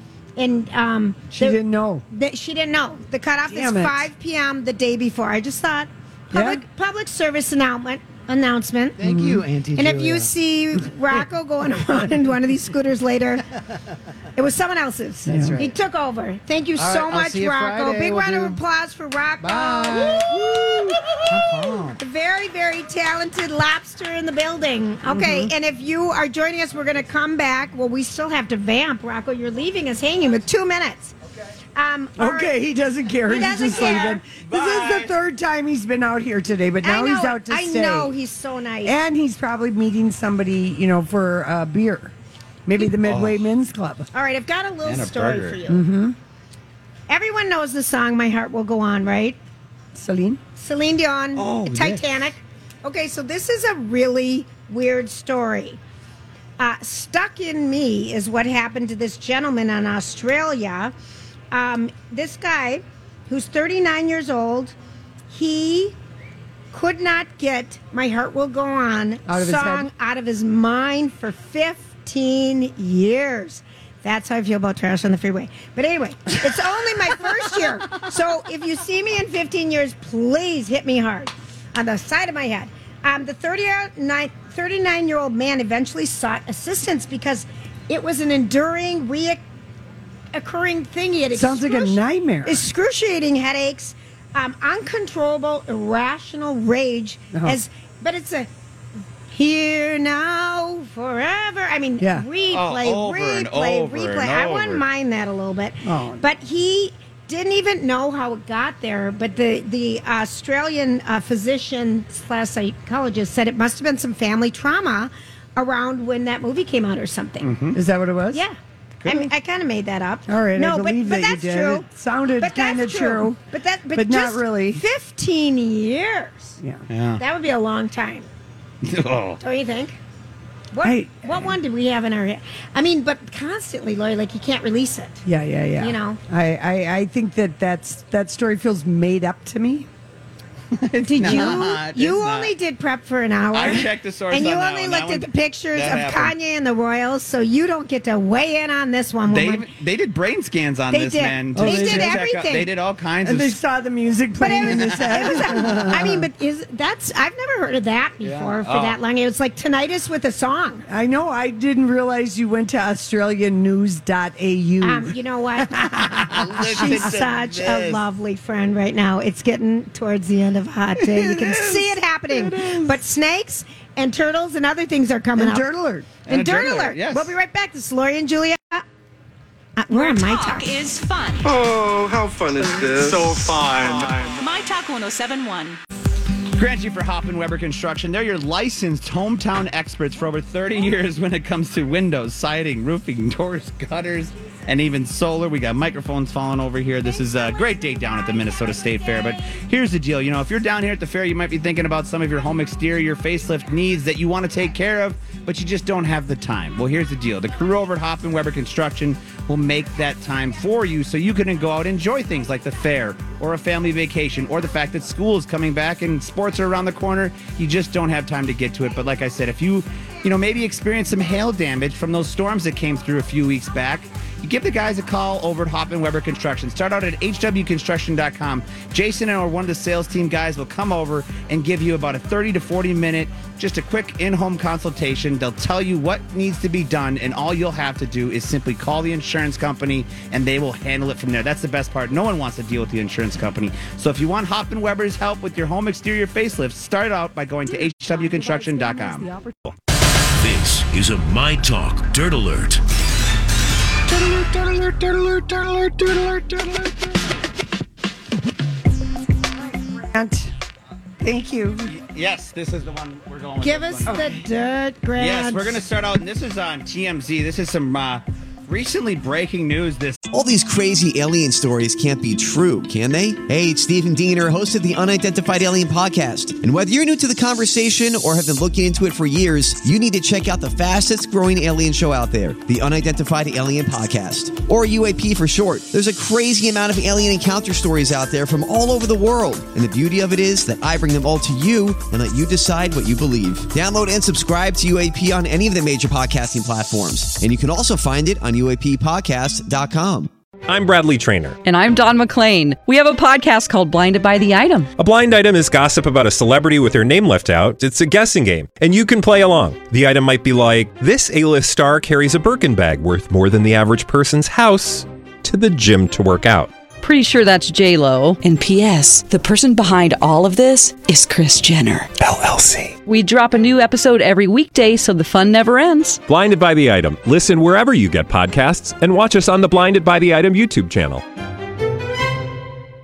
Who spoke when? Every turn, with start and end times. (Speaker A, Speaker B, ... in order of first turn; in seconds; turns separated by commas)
Speaker A: 0.3-9.0, Speaker B: 1.3-2.0, Speaker B: 3.5-4.1, Speaker B: 6.3-6.6, Speaker C: 9.0-10.3, Speaker B: 9.0-9.4, Speaker A: 9.8-13.5, Speaker C: 13.6-13.9, Speaker A: 14.3-31.1, Speaker B: 15.2-15.6, Speaker C: 15.3-15.8, Speaker C: 16.8-18.6, Speaker C: 19.4-22.0, Speaker B: 25.1-25.5, Speaker A: 31.7-32.6, Speaker B: 32.2-38.1, Speaker A: 33.2-34.2, Speaker D: 33.7-35.1, Speaker A: 36.8-39.0, Speaker B: 38.8-42.1, Speaker B: 42.6-44.1, Speaker D: 43.0-43.4, Speaker A: 44.1-45.8, Speaker D: 44.8-45.6, Speaker B: 45.7-46.1, Speaker A: 47.1-49.4, Speaker B: 49.9-50.4, Speaker A: 50.5-55.8, Speaker D: 51.4-52.1, Speaker A: 56.6-60.9, Speaker A: 61.5-64.7, Speaker A: 65.3-66.0, Speaker A: 66.7-89.4, Speaker B: 69.3-69.9, Speaker A: 90.3-98.5, Speaker B: 91.3-92.6, Speaker B: 97.3-97.6, Speaker A: 99.3-117.5, Speaker B: 102.0-102.2, Speaker D: 102.5-104.8, Speaker B: 105.8-106.2, Speaker D: 117.4-117.8, Speaker B: 117.7-118.4, Speaker A: 118.3-121.9, Speaker D: 119.0-119.3, Speaker B: 120.3-123.4, Speaker A: 122.4-126.6, Speaker B: 123.9-124.8, Speaker D: 126.9-127.2, Speaker A: 127.2-128.3, Speaker D: 128.8-129.4, Speaker A: 129.4-130.0, Speaker A: 130.7-135.2, Speaker B: 130.8-131.5, Speaker B: 135.2-139.9, Speaker A: 135.8-136.2, Speaker D: 140.7-142.5, Speaker A: 141.0-149.7, Speaker B: 141.3-141.5, Speaker D: 143.5-146.3, Speaker D: 149.2-153.6, Speaker A: 150.9-152.7, Speaker B: 151.6-152.2, Speaker B: 153.2-156.2, Speaker A: 154.4-160.8, Speaker D: 154.5-155.9, Speaker D: 158.2-159.0, Speaker B: 160.9-166.9, Speaker A: 164.8-175.6, Speaker D: 166.1-168.0, Speaker D: 171.0-171.9, Speaker B: 172.3-172.9, Speaker B: 175.4-176.1, Speaker D: 176.3-177.3, Speaker A: 176.3-178.8, Speaker A: 179.8-180.8, Speaker E: 179.9-181.5, Speaker F: 181.4-184.4, Speaker D: 183.8-184.4, Speaker E: 184.4-185.8, Speaker D: 186.6-249.3, Speaker B: 248.0-249.6, Speaker G: 250.4-252.8, Speaker B: 259.9-260.5, Speaker B: 261.2-261.9, Speaker D: 261.9-264.4, Speaker A: 263.6-265.8, Speaker D: 265.2-270.2, Speaker H: 270.3-300.3, Speaker I: 300.7-301.6, Speaker J: 301.6-304.9, Speaker I: 305.0-316.7, Speaker J: 317.0-322.1, Speaker I: 322.2-322.9, Speaker J: 323.0-326.2, Speaker I: 326.3-331.2